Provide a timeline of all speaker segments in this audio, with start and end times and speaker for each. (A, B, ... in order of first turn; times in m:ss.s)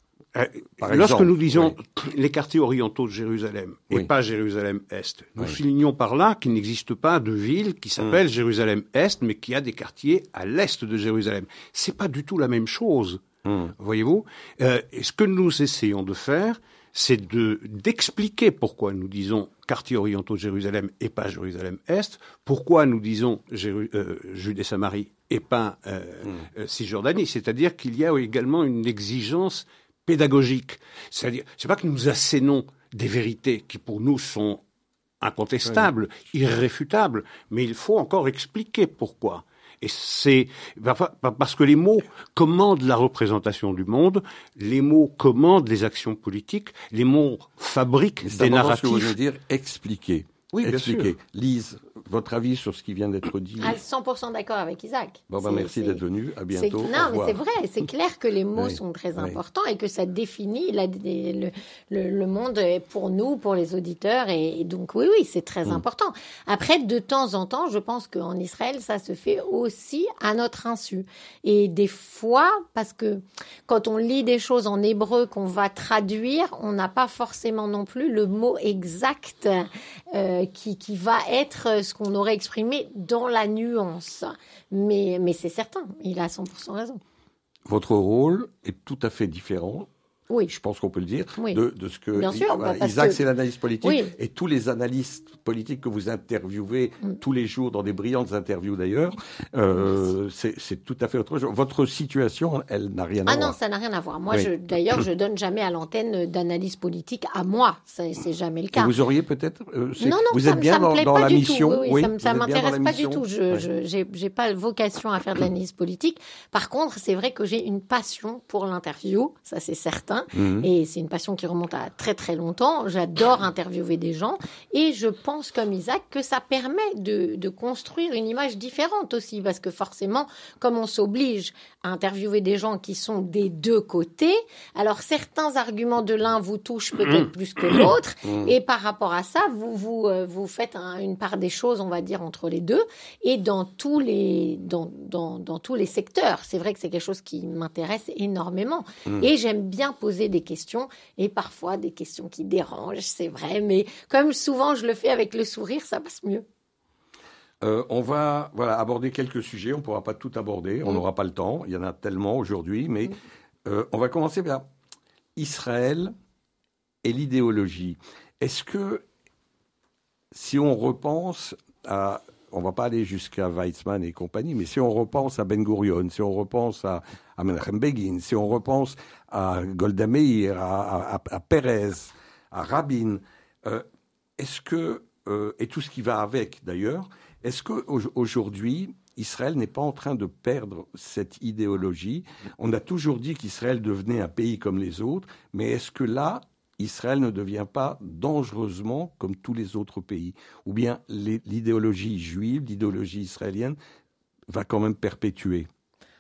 0:00.4-0:13.2 A
0:00.8-0:01.8 B
0:13.4-0:13.7 B
0:13.8-0:34.6 A
0:35.2-0:49.2 A
0:48.2-0:53.8 B
0:50.5-0:51.1 A
0:53.6-1:27.0 C
0:55.3-0:57.4 B
0:58.6-0:59.4 B
1:27.7-1:29.9 B
1:30.5-1:43.6 B
1:32.2-1:33.2 C
1:33.8-1:34.1 C
1:43.3-1:48.9 C
1:44.3-1:45.0 B
1:48.7-1:53.6 B
1:50.0-2:36.4 C
2:00.4-2:00.7 B
2:18.2-2:18.5 B
2:37.6-2:43.2 B
2:43.7-2:44.7 B
2:45.4-2:46.1 B
2:47.0-2:49.0 B
2:50.3-3:03.9 B
3:04.4-3:23.8 B
3:24.5-3:25.7 B